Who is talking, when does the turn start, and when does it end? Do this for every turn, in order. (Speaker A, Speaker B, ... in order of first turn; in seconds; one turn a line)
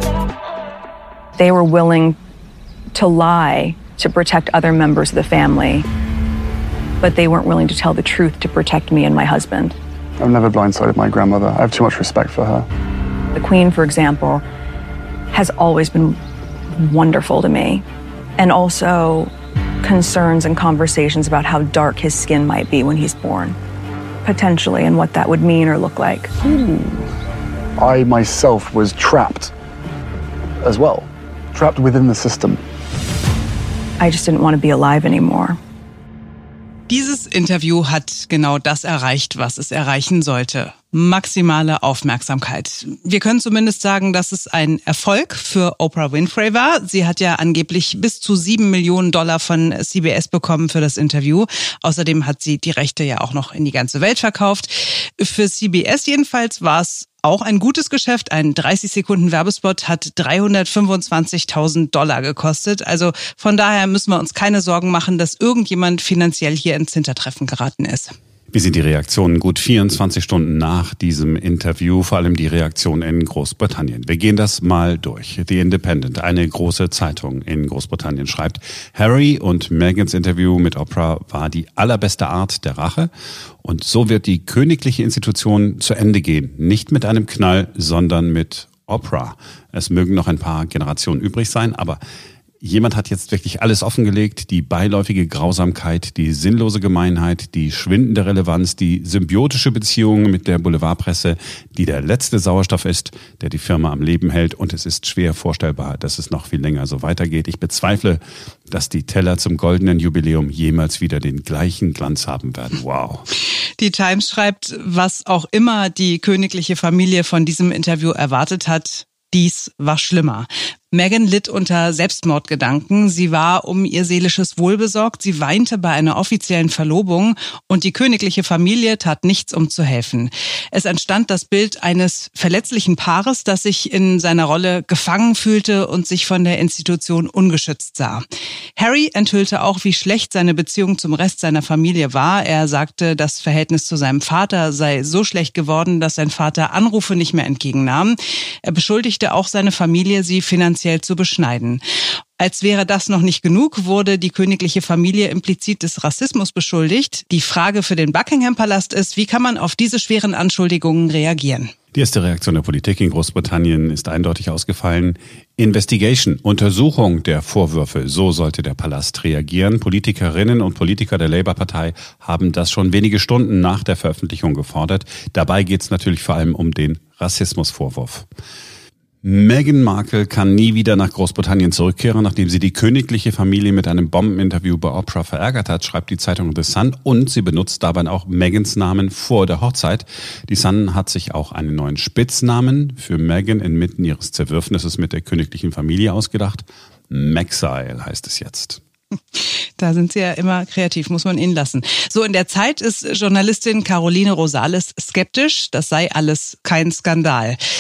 Speaker A: 1.4-2.2
Speaker A: 3.0-5.9
Speaker A: 7.0-9.8
Speaker B: 10.2-12.7
Speaker A: 13.3-14.4
Speaker A: 15.3-16.2
Speaker A: 16.8-17.8
Speaker A: 18.4-19.3
Speaker A: 19.8-23.6
Speaker A: 24.2-26.7
Speaker B: 27.8-29.5
Speaker B: 30.6-32.6
Speaker A: 34.0-35.6
Speaker C: 36.9-68.1
Speaker D: 68.5-83.1
Speaker D: 83.6-92.0
Speaker D: 92.6-113.3
Speaker C: 113.8-138.2
Speaker C: 138.8-151.8
Speaker C: 152.4-161.7
Speaker D: 161.9-178.3
Speaker D: 179.2-198.8
Speaker C: 199.8-207.6